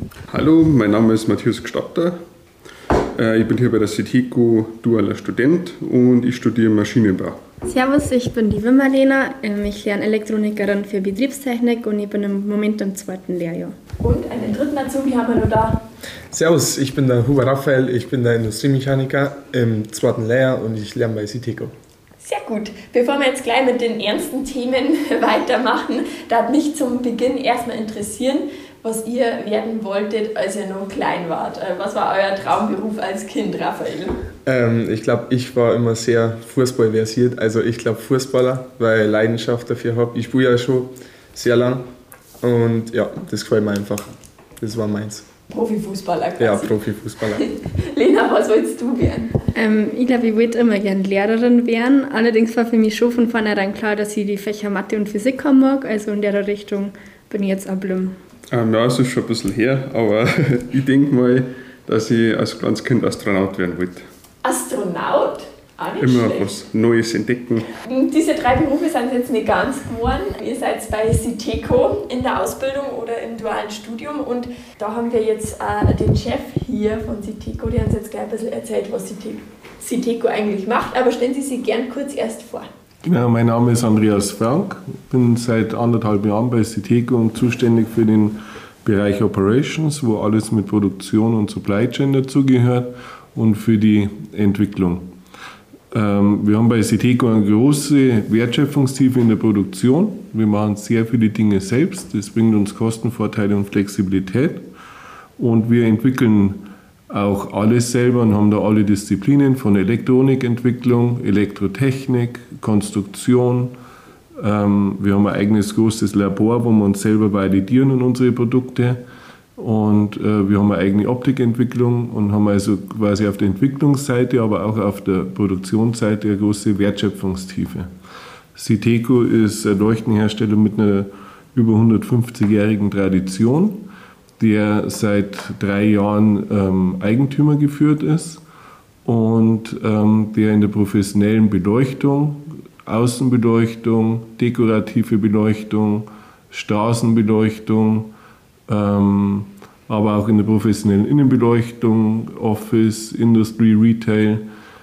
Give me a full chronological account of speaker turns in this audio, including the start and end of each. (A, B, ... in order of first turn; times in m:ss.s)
0:00.3-0:02.2 A
0:03.1-0:07.4 A
0:07.6-0:13.7 B
0:14.0-0:15.8 C
0:16.3-0:21.7 D
0:22.2-0:34.2 C
0:34.4-0:41.9 D
0:42.4-0:45.2 D
0:45.5-0:46.7 C
0:46.4-0:47.4 D
0:47.3-0:49.4 C
0:49.5-0:58.2 B
0:58.5-1:04.0 A
1:04.4-1:06.6 C
1:06.0-1:07.7 A
1:07.8-1:22.7 C
1:23.0-1:35.1 E
1:35.9-1:44.7 E
1:45.4-1:53.8 E
1:54.4-1:59.0 E
1:59.6-2:07.9 E
2:08.5-2:18.4 E
2:19.0-2:28.1 E
2:28.7-2:34.4 E